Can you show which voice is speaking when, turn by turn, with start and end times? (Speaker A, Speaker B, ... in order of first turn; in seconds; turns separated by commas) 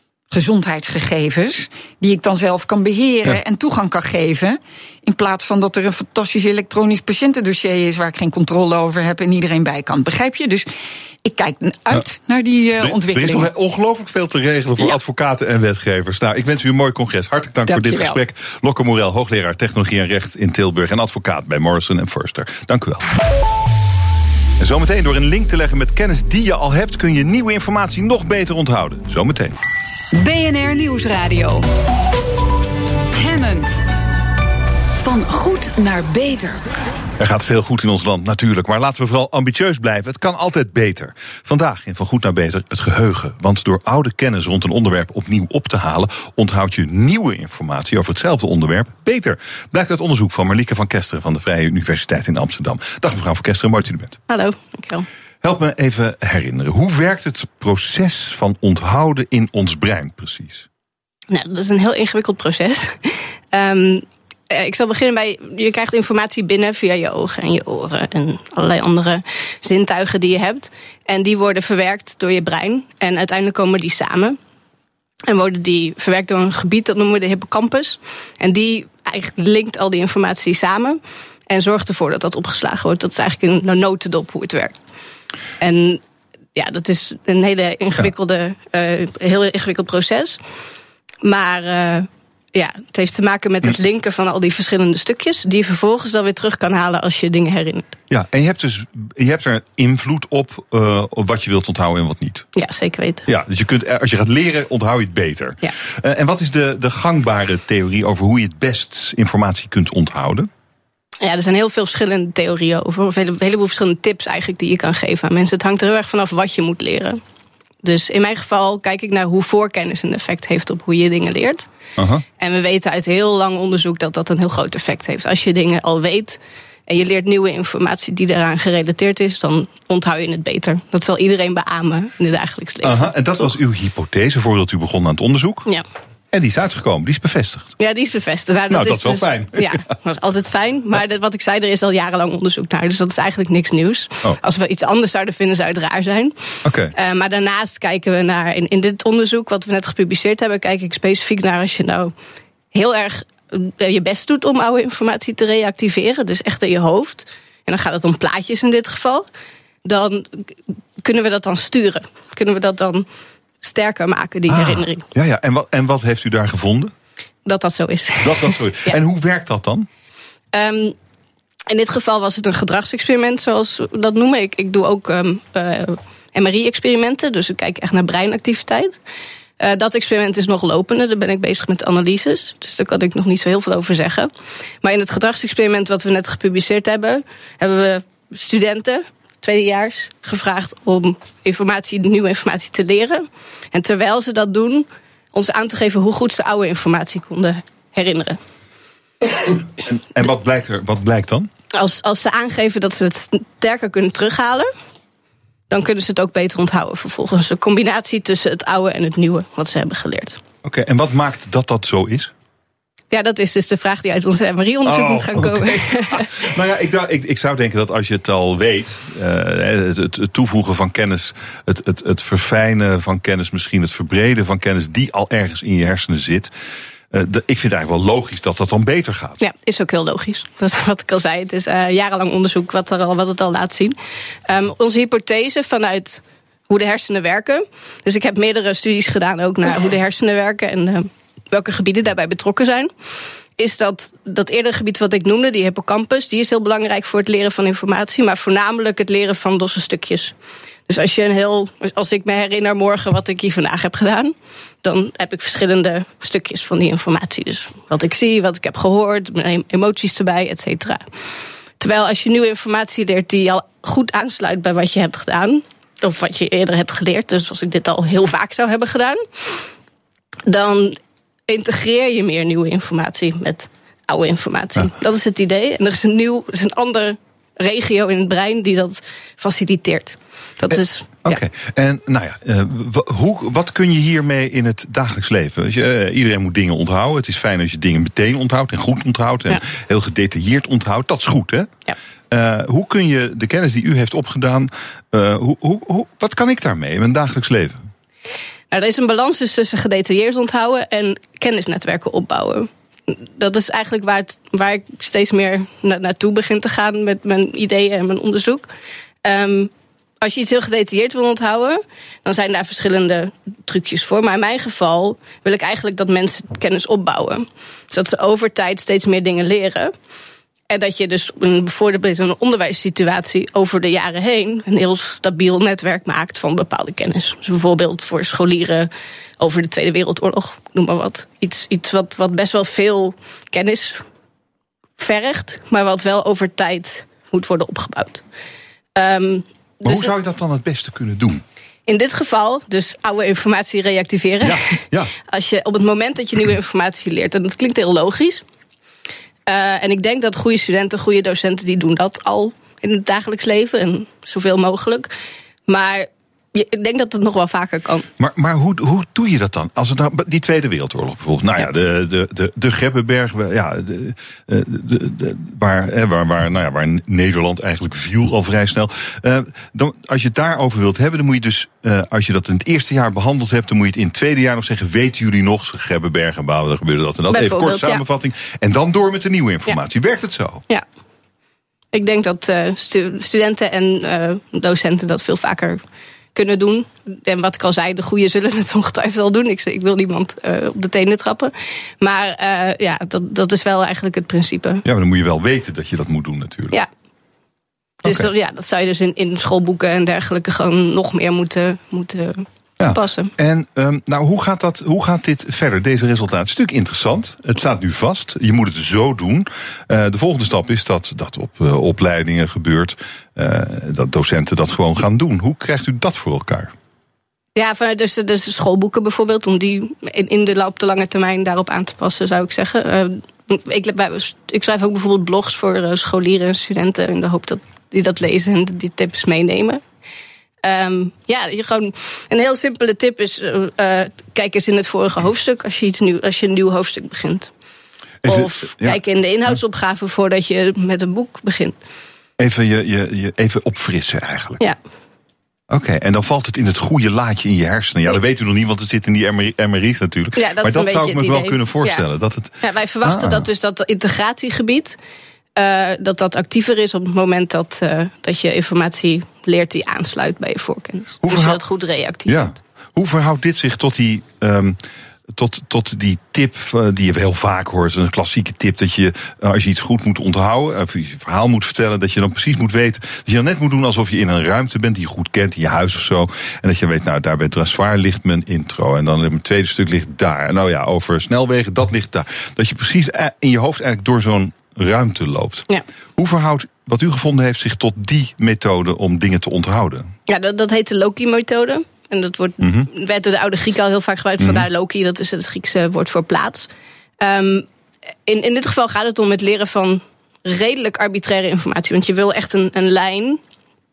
Speaker A: 0.3-10.7, Speaker A: 11.2-13.5, Speaker B: 12.8-23.1, Speaker A: 17.7-18.2, Speaker B: 24.6-29.6, Speaker C: 30.1-31.6, Speaker C: 33.1-33.7, Speaker C: 35.0-36.6, Speaker B: 37.2-54.2, Speaker D: 54.3-55.1, Speaker B: 55.4-60.7, Speaker D: 61.3-74.4, Speaker D: 75.3-84.7, Speaker D: 85.6-86.0, Speaker D: 86.6-90.4, Speaker D: 91.2-97.9, Speaker B: 98.1-102.5, Speaker D: 102.6-103.3, Speaker B: 103.3-110.5, Speaker D: 111.2-117.2, Speaker D: 117.8-121.7, Speaker B: 122.0-122.2, Speaker D: 122.4-133.5, Speaker B: 132.8-135.7, Speaker B: 136.3-137.7, Speaker D: 137.8-146.3, Speaker B: 138.7-139.8, Speaker B: 146.6-146.9, Speaker D: 146.9-152.1, Speaker D: 152.7-159.2, Speaker D: 159.8-160.4, Speaker D: 161.0-163.1, Speaker D: 163.6-165.1, Speaker B: 164.5-166.9, Speaker D: 167.5-169.0, Speaker B: 168.2-169.9, Speaker D: 170.5-170.9, Speaker D: 171.7-179.0, Speaker D: 179.6-184.3, Speaker D: 184.8-198.4, Speaker B: 199.4-201.5, Speaker D: 201.7-204.7, Speaker D: 205.7-210.4, Speaker B: 210.6-212.3, Speaker D: 213.1-216.3, Speaker B: 214.8-226.5, Speaker B: 227.1-229.4, Speaker D: 229.4-234.0, Speaker D: 234.5-242.9, Speaker D: 243.6-250.3, Speaker D: 250.9-261.1, Speaker D: 261.8-269.6, Speaker D: 270.5-281.4, Speaker B: 280.7-291.8, Speaker B: 292.3-297.9, Speaker D: 298.7-308.7, Speaker D: 309.2-319.9, Speaker D: 320.7-334.0, Speaker D: 335.0-338.2, Speaker D: 339.0-340.1, Speaker B: 339.8-341.4, Speaker D: 341.9-344.8, Speaker B: 344.4-345.1, Speaker D: 345.3-348.4, Speaker D: 349.5-355.1, Speaker D: 355.7-358.1, Speaker B: 358.2-380.6, Speaker D: 377.3-378.0, Speaker D: 381.9-385.8, Speaker D: 386.4-394.8, Speaker B: 394.8-396.8, Speaker B: 398.0-398.3, Speaker D: 398.0-403.3, Speaker B: 402.8-416.7, Speaker D: 417.6-429.8, Speaker D: 430.6-437.5, Speaker B: 438.2-439.0, Speaker D: 438.2-441.8, Speaker B: 442.4-444.6, Speaker B: 445.7-453.5, Speaker D: 450.4-452.1, Speaker D: 452.6-455.0, Speaker D: 455.6-462.6, Speaker B: 461.2-461.6, Speaker B: 462.3-464.8, Speaker B: 465.3-490.1, Speaker D: 490.3-496.7, Speaker B: 492.6-492.9, Speaker B: 494.4-494.7, Speaker D: 497.2-497.7, Speaker D: 498.3-503.4